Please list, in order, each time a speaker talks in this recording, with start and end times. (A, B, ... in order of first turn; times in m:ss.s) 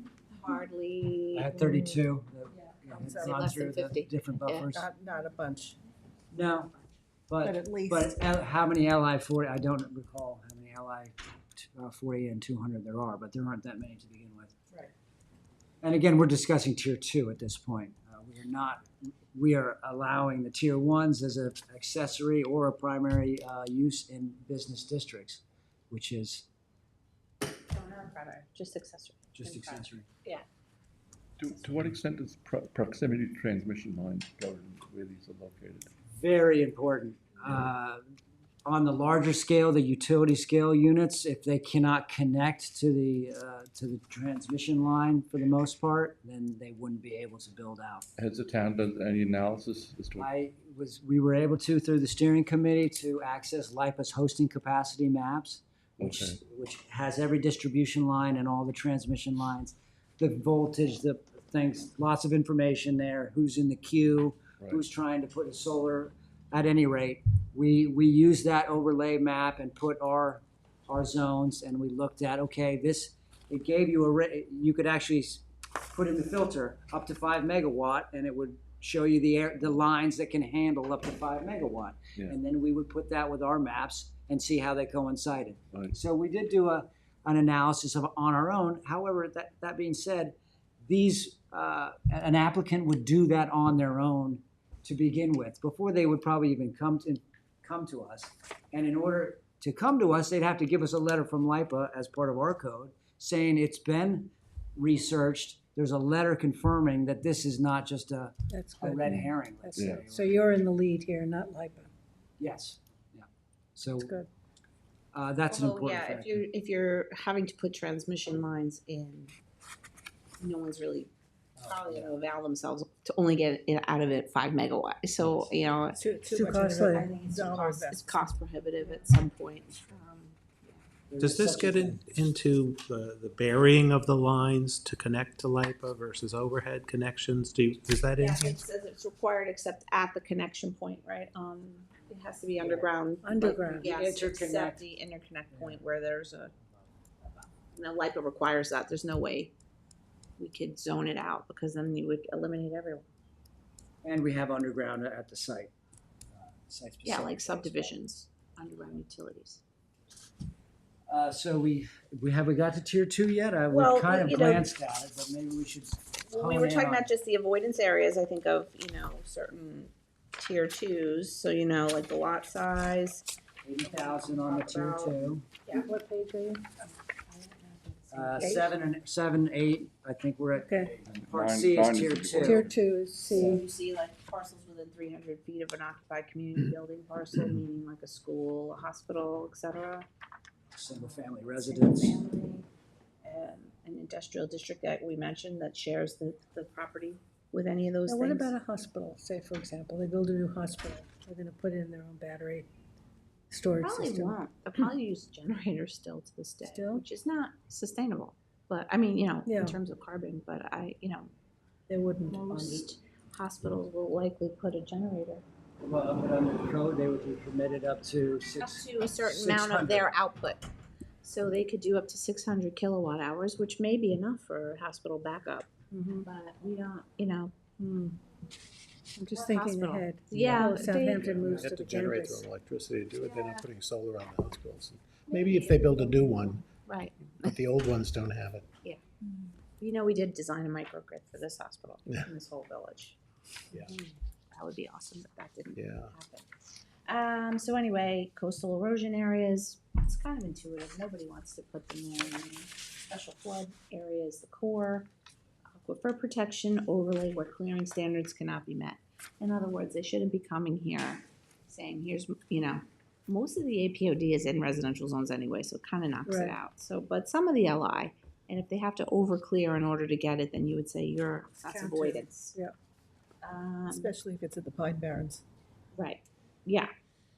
0:00.3-0:01.6 A
0:01.3-0:04.9 B
0:02.9-0:03.4 C
0:03.1-0:04.7 A
0:04.7-0:05.8 C
0:06.3-0:06.7 B
0:07.3-0:14.5 B
0:07.4-0:08.1 C
0:15.8-0:26.4 B
0:27.6-0:30.4 A
0:29.3-0:30.1 B
0:31.4-0:35.9 D
0:31.5-0:31.7 A
0:36.1-0:38.0 B
0:38.6-0:48.0 B
0:48.2-0:50.3 D
0:50.2-1:50.3 B
0:56.0-0:56.4 D
1:48.5-1:51.9 E
1:49.8-1:50.0 D
1:52.4-1:54.1 B
1:54.0-1:54.3 E
1:55.1-1:56.4 B
1:55.5-1:59.3 A
2:00.4-2:06.0 A
2:01.6-2:02.1 B
2:05.2-2:05.4 B
2:06.0-2:08.3 C
2:06.3-2:07.0 E
2:06.8-2:10.8 A
2:11.1-2:12.0 B
2:11.2-2:18.6 F
2:18.2-2:26.5 A
2:22.6-2:22.9 B
2:23.2-2:23.9 E
2:23.4-2:24.8 B
2:27.2-2:29.5 A
2:30.4-2:33.0 A
2:34.0-2:35.7 B
2:36.3-2:38.0 B
2:37.0-2:39.6 A
2:41.1-2:47.1 B
2:43.7-2:44.6 A
2:46.3-2:53.2 A
2:53.6-2:55.5 B
2:53.8-2:55.9 A
2:55.7-2:56.6 E
2:56.8-2:58.8 A
2:58.1-3:02.7 B
2:58.4-2:58.6 E
3:00.6-3:01.0 E
3:01.0-3:02.8 D
3:02.4-3:03.6 E
3:03.3-3:10.0 A
3:03.3-3:03.6 B
3:10.7-3:12.2 B
3:10.9-3:12.7 A
3:13.2-3:18.5 A
3:18.1-3:22.7 E
3:23.5-3:24.4 E
3:23.8-3:31.3 A
3:26.6-3:27.0 E
3:29.4-3:29.8 E
3:31.9-3:32.9 E
3:32.2-3:35.4 A
3:35.8-3:40.1 B
3:38.6-3:40.6 A
3:41.2-3:45.7 A
3:45.9-3:46.3 E
3:46.2-3:47.5 A
3:47.8-3:48.2 E
3:49.2-3:51.4 A
3:49.2-3:52.4 E
3:51.2-3:51.7 B
3:51.4-3:56.6 F
3:53.2-3:53.6 A
3:55.3-3:57.6 A
3:57.3-3:58.6 F
3:59.8-4:03.2 A
4:03.9-4:06.5 A
4:05.8-4:06.1 F
4:07.0-4:15.1 A
4:15.8-4:32.6 A
4:26.2-4:26.6 E
4:31.7-4:32.2 C
4:33.4-4:34.1 A
4:33.9-4:35.4 C
4:35.9-4:36.9 A